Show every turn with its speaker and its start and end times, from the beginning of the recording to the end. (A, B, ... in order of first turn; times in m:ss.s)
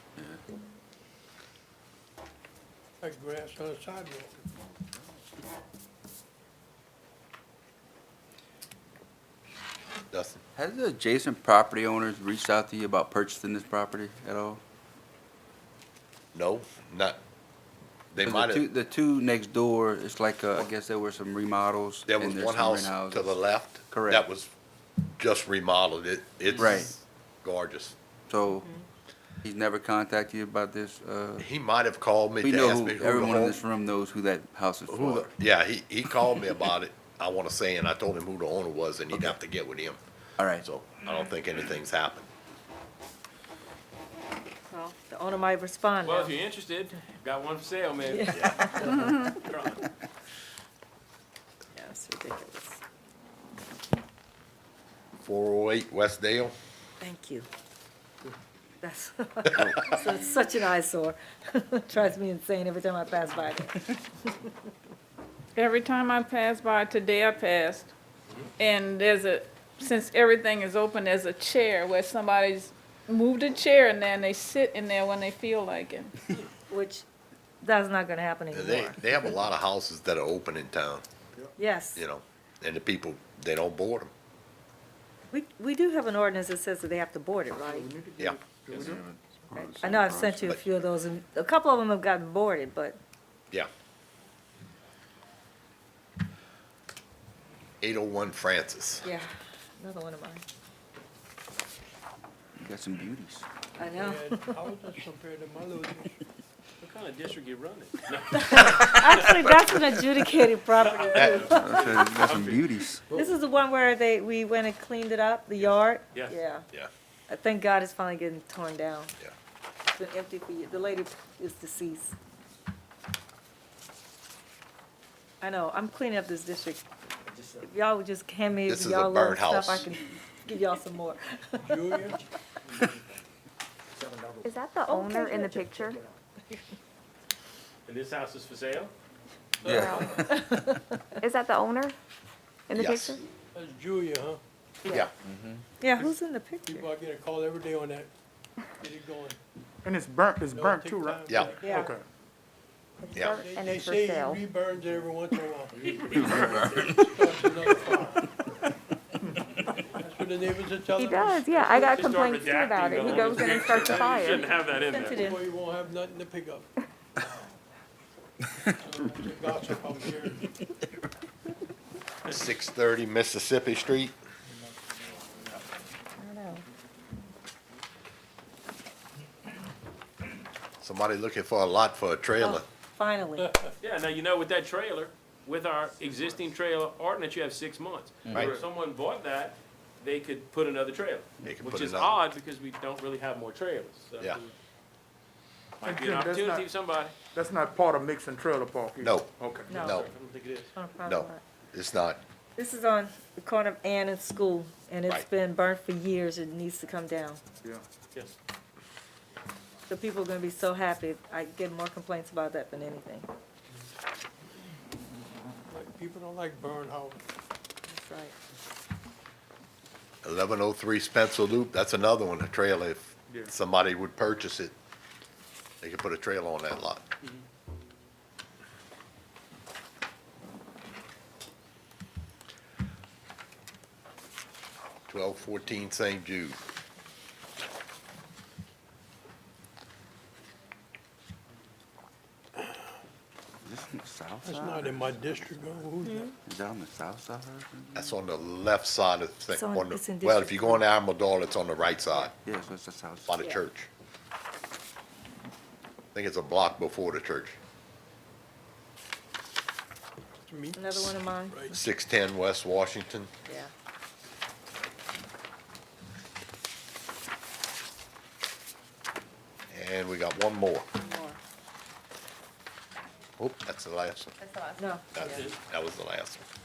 0:00.2-0:00.4 A
0:03.0-0:04.3 B
0:10.1-0:10.4 C
0:10.6-0:14.6 A
0:16.3-0:17.2 C
0:18.1-0:18.7 C
0:18.2-0:23.3 A
0:22.1-0:24.5 C
0:23.9-0:24.2 A
0:25.2-0:28.0 C
0:26.6-0:26.9 A
0:28.3-0:28.7 A
0:29.4-0:31.5 A
0:31.4-0:33.6 C
0:32.4-0:35.3 A
0:34.9-0:40.0 C
0:40.4-0:40.6 A
0:40.6-0:42.3 C
0:44.7-0:46.4 D
0:46.0-0:49.8 E
0:48.0-0:49.2 D
0:48.3-0:48.6 C
0:49.0-0:49.3 F
0:51.7-0:52.8 D
0:55.2-0:56.5 C
0:57.0-0:57.5 D
0:58.8-1:04.5 D
1:05.6-1:07.9 F
1:08.6-1:16.1 F
1:16.7-1:17.1 D
1:17.6-1:19.0 D
1:18.5-1:21.0 C
1:21.6-1:22.0 D
1:22.0-1:24.1 C
1:25.3-1:27.9 D
1:27.7-1:29.0 G
1:28.7-1:29.0 E
1:28.7-1:30.6 A
1:29.5-1:33.0 D
1:37.8-1:39.0 C
1:39.0-1:40.4 D
1:42.6-1:43.5 A
1:43.8-1:44.6 D
1:43.9-1:46.2 B
1:46.8-1:49.5 E
1:48.3-1:52.0 D
1:50.7-1:52.8 E
1:51.1-1:51.5 C
1:51.5-1:53.0 A
1:53.1-1:56.7 D
1:55.6-1:56.4 E
1:57.3-1:59.1 D
1:59.9-2:02.2 D
2:05.4-2:06.8 D
2:07.6-2:11.7 D
2:08.7-2:09.9 C
2:11.6-2:12.2 B
2:14.4-2:16.0 H
2:14.8-2:16.7 D
2:17.9-2:18.9 E
2:19.6-2:20.3 B
2:19.6-2:20.1 A
2:19.7-2:20.1 H
2:20.0-2:21.2 D
2:21.2-2:22.0 H
2:22.7-2:23.2 H
2:22.8-2:23.2 C
2:23.5-2:24.4 B
2:25.2-2:25.6 A
2:25.8-2:26.9 D
2:26.7-2:28.1 B
2:28.8-2:29.4 B
2:29.8-2:32.0 G
2:30.5-2:31.8 B
2:31.3-2:31.5 C
2:31.6-2:31.9 D
2:33.1-2:34.4 H
2:33.1-2:33.4 C
2:33.2-2:38.3 B
2:36.1-2:37.0 A
2:39.9-2:42.1 B
2:41.0-2:44.5 H
2:41.7-2:45.2 E
2:43.1-2:43.5 B
2:44.8-2:45.4 D
2:45.0-2:46.7 B
2:48.8-2:50.5 B
2:52.2-2:54.1 C
2:56.2-2:56.6 D
3:00.8-3:02.6 C
3:02.4-3:03.6 D
3:03.8-3:14.5 E
3:11.4-3:12.2 C
3:15.8-3:17.2 E
3:15.8-3:16.7 G
3:17.3-3:19.8 G
3:19.0-3:20.1 C
3:19.7-3:20.1 D
3:19.7-3:20.7 E
3:20.8-3:21.4 D
3:21.1-3:22.2 C
3:22.6-3:27.4 D
3:29.9-3:33.3 D
3:35.7-3:37.2 B
3:37.9-3:38.3 D
3:40.2-3:44.7 C
3:45.8-3:47.0 C
3:55.1-3:56.6 C
4:03.6-4:08.2 A
4:04.4-4:06.3 B
4:06.0-4:06.3 D
4:07.9-4:12.3 C
4:09.5-4:10.8 D
4:12.4-4:13.4 A
4:13.3-4:13.9 C
4:16.1-4:17.6 C
4:20.4-4:21.8 B
4:20.8-4:21.7 D
4:21.7-4:23.3 C
4:29.7-4:30.9 C
4:31.0-4:31.4 D
4:33.4-4:34.3 C
4:34.8-4:35.5 D
4:35.1-4:36.4 C